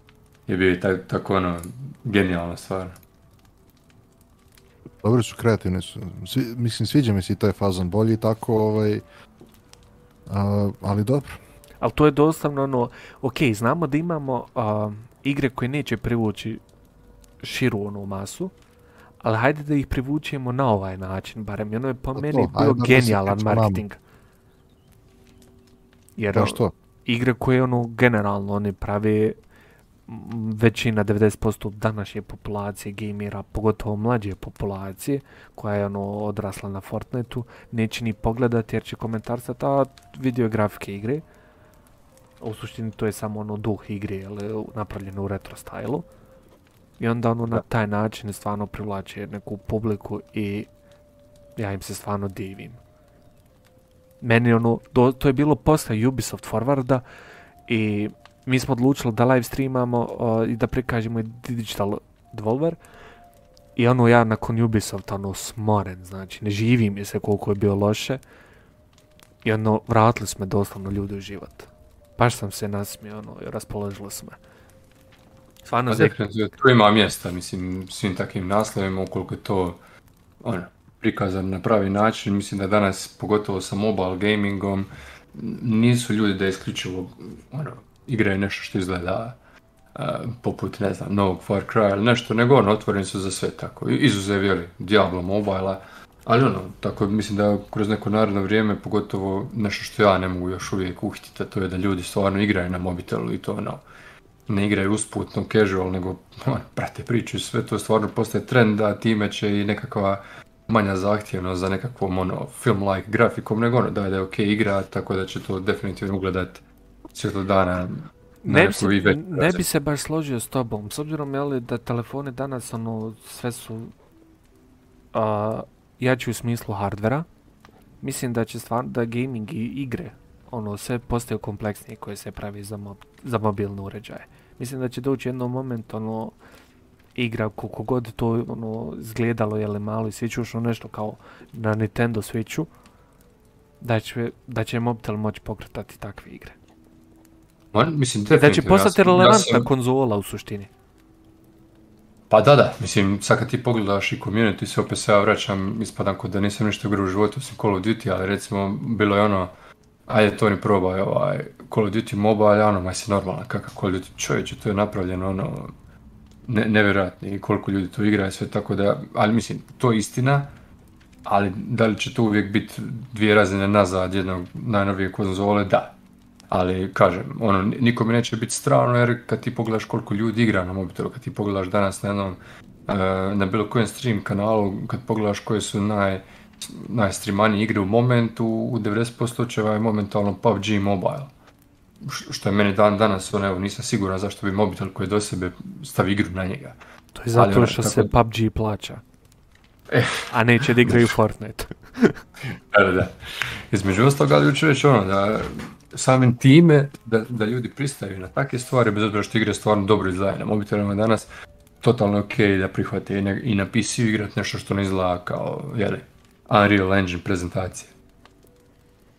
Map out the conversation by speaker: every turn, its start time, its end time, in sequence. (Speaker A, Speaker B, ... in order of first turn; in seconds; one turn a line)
Speaker A: 0.5-3.0
Speaker B: 5.0-9.0
Speaker B: 10.3-11.4
Speaker C: 11.8-16.6
Speaker C: 17.4-18.5
Speaker C: 19.2-24.0
Speaker B: 22.2-23.8
Speaker C: 26.2-29.4
Speaker B: 26.3-26.7
Speaker C: 30.1-41.2
Speaker C: 42.4-46.0
Speaker C: 47.0-50.7
Speaker C: 51.5-52.8
Speaker C: 54.2-57.0
Speaker C: 57.7-62.8
Speaker C: 63.8-68.2
Speaker C: 69.4-74.4
Speaker C: 75.7-76.2
Speaker A: 75.9-79.8
Speaker A: 80.4-89.4
Speaker A: 89.9-103.8
Speaker A: 104.5-116.6
Speaker A: 117.1-119.6
Speaker C: 118.4-123.9
Speaker C: 125.1-127.3
Speaker C: 128.0-136.3
Speaker C: 137.1-142.7
Speaker C: 143.8-146.6
Speaker A: 147.7-149.7
Speaker C: 148.3-150.7
Speaker A: 152.3-159.5
Speaker A: 160.1-165.7
Speaker A: 166.5-170.5
Speaker A: 171.2-175.9
Speaker A: 176.5-191.3
Speaker A: 192.0-196.8
Speaker C: 197.1-199.0
Speaker A: 197.3-198.1
Speaker A: 199.9-200.3
Speaker C: 200.3-202.2
Speaker A: 202.7-203.2
Speaker A: 203.7-211.3
Speaker A: 211.8-217.9